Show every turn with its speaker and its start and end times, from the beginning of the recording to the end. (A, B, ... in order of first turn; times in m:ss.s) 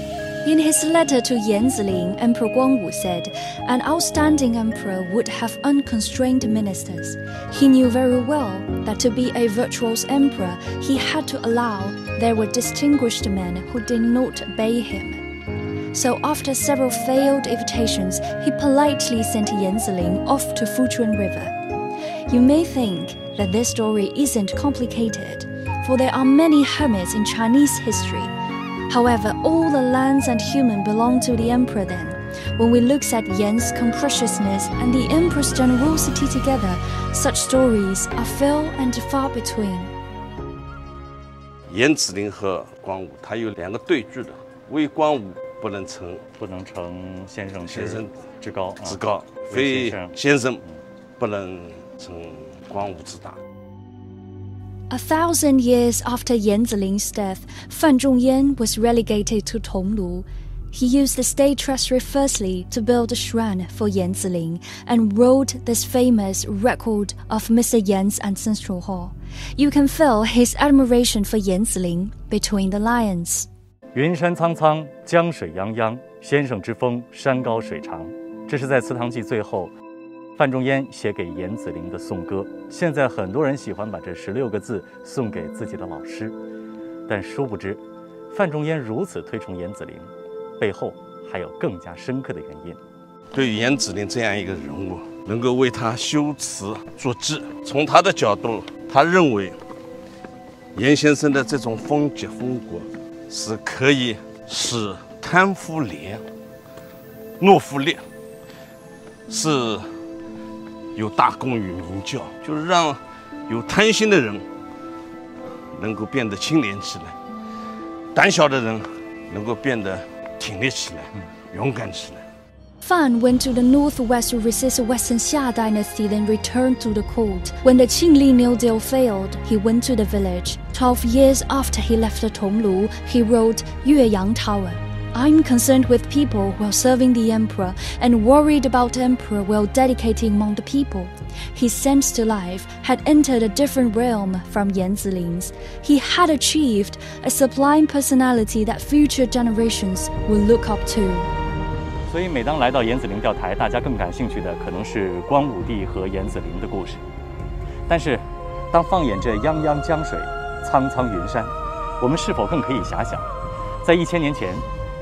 0:00.4-0:15.2 A
0:15.9-0:21.5 A
0:22.3-0:28.3 A
0:28.9-0:39.9 A
0:41.7-0:46.2 B
0:46.4-0:50.2 C
0:47.6-0:48.2 B
0:48.8-0:50.6 B
0:51.2-0:53.4 B
0:54.9-1:13.5 A
1:13.9-1:19.7 C
1:20.4-1:26.4 C
1:27.1-1:27.8 C
1:28.3-1:32.8 C
1:33.3-1:39.6 B
1:40.7-1:46.2 B
1:47.4-1:48.0 B
1:49.3-1:49.9 B
1:50.9-1:54.4 B
1:55.7-1:57.2 B
1:58.1-2:02.2 B
2:02.8-2:31.3 A
2:32.1-2:37.0 C
2:37.9-2:43.3 C
2:43.8-2:44.6 C